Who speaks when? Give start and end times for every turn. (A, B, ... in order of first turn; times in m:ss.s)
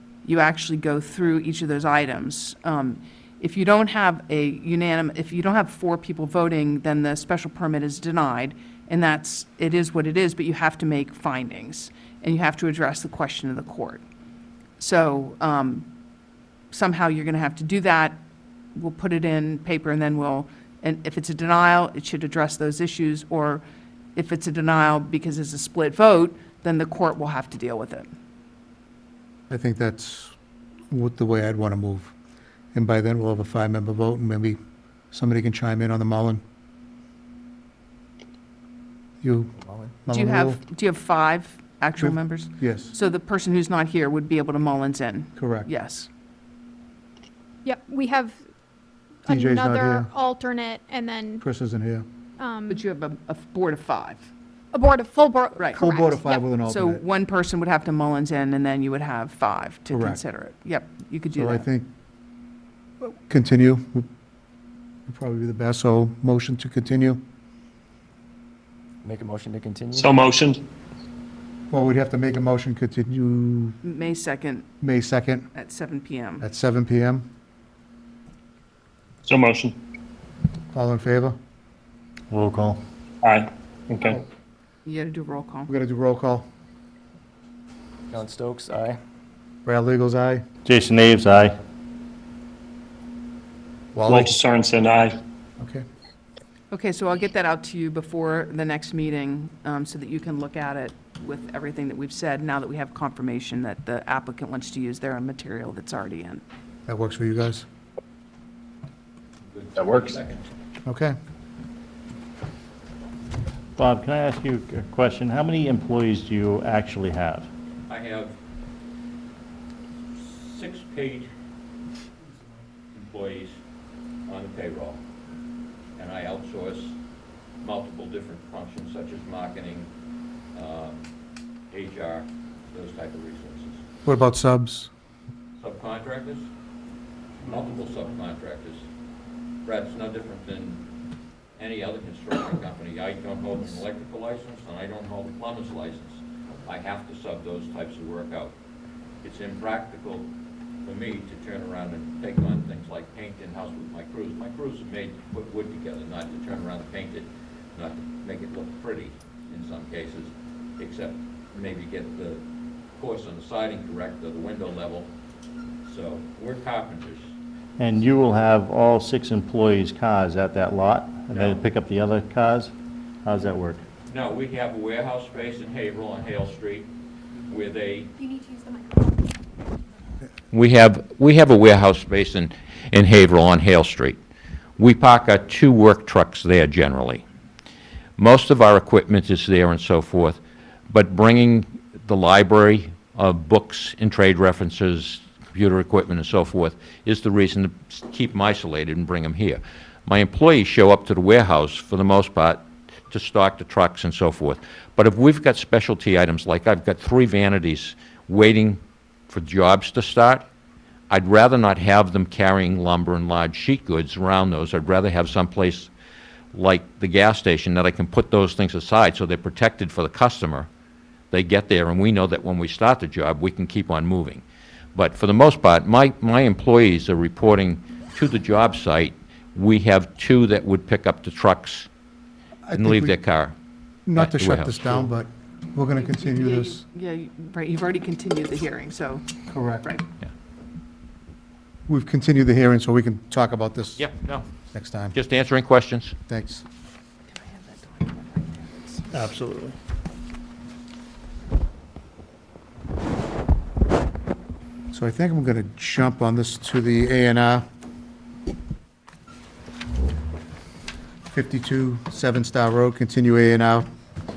0:00.2-0:14.0 A
0:14.8-0:15.9 A
0:16.7-0:18.2 A
0:18.7-0:23.6 A
0:24.1-0:28.1 A
0:29.5-0:30.3 B
0:30.9-0:32.1 B
0:32.7-0:34.6 B
0:35.1-0:36.4 B
0:39.2-0:40.6 B
0:40.1-0:46.1 A
0:42.0-0:42.9 B
0:45.4-0:45.7 B
0:47.6-0:48.4 C
0:49.2-0:51.4 C
0:49.3-0:50.1 B
0:51.4-0:52.0 B
0:52.4-0:52.8 C
0:52.7-0:54.3 A
0:54.7-0:56.4 C
0:55.8-0:57.0 B
0:56.5-1:01.7 A
0:59.9-1:00.2 B
1:01.4-1:01.9 B
1:03.0-1:04.0 B
1:05.1-1:07.2 B
1:09.0-1:10.1 D
1:10.0-1:10.6 E
1:11.7-1:13.8 B
1:13.8-1:14.7 A
1:14.8-1:15.5 B
1:15.5-1:16.4 A
1:16.4-1:17.2 B
1:19.2-1:19.8 E
1:20.7-1:21.4 B
1:22.3-1:22.8 F
1:23.2-1:24.2 E
1:24.8-1:25.7 A
1:25.7-1:26.5 B
1:28.1-1:29.0 D
1:29.6-1:30.4 B
1:30.6-1:31.6 F
1:33.9-1:34.3 B
1:34.1-1:35.2 E
1:35.6-1:35.8 B
1:36.7-1:46.4 A
1:46.9-1:47.6 B
1:49.5-1:50.4 G
1:49.8-1:50.1 E
1:50.8-1:51.1 B
1:53.8-1:57.5 F
1:57.9-1:58.3 G
2:00.1-2:01.3 G
2:02.9-2:03.6 G
2:04.3-2:05.0 G
2:06.0-2:07.0 G
2:07.6-2:09.9 G
2:10.5-2:11.0 G
2:11.7-2:13.8 G
2:14.0-2:14.9 B
2:15.6-2:16.5 G
2:17.4-2:18.9 G
2:19.6-2:20.8 G
2:21.6-2:28.6 G
2:29.2-2:30.3 G
2:30.8-2:42.4 G
2:43.0-2:45.1 G
2:45.8-2:47.3 G
2:47.8-2:52.7 F
2:51.3-2:51.6 G
2:53.2-2:53.8 F
2:54.1-2:56.9 G
2:57.5-2:58.1 G
2:58.2-2:59.2 C
3:00.5-3:04.2 G
3:04.8-3:07.2 G
3:08.2-3:30.5 G
3:31.1-3:35.9 G
3:36.5-3:40.7 G
3:41.3-3:44.4 G
3:44.9-3:51.9 G
3:52.6-3:53.2 B
3:52.7-3:53.5 G
3:54.0-3:56.8 B
3:54.2-3:55.1 G
3:56.0-3:59.2 A
3:59.5-3:59.8 B
4:01.9-4:04.1 B
4:04.0-4:04.5 G
4:04.7-4:05.2 B
4:05.1-4:06.2 G
4:06.3-4:06.6 B
4:07.3-4:09.3 A
4:09.2-4:09.6 F
4:14.9-4:17.6 B
4:21.3-4:23.8 B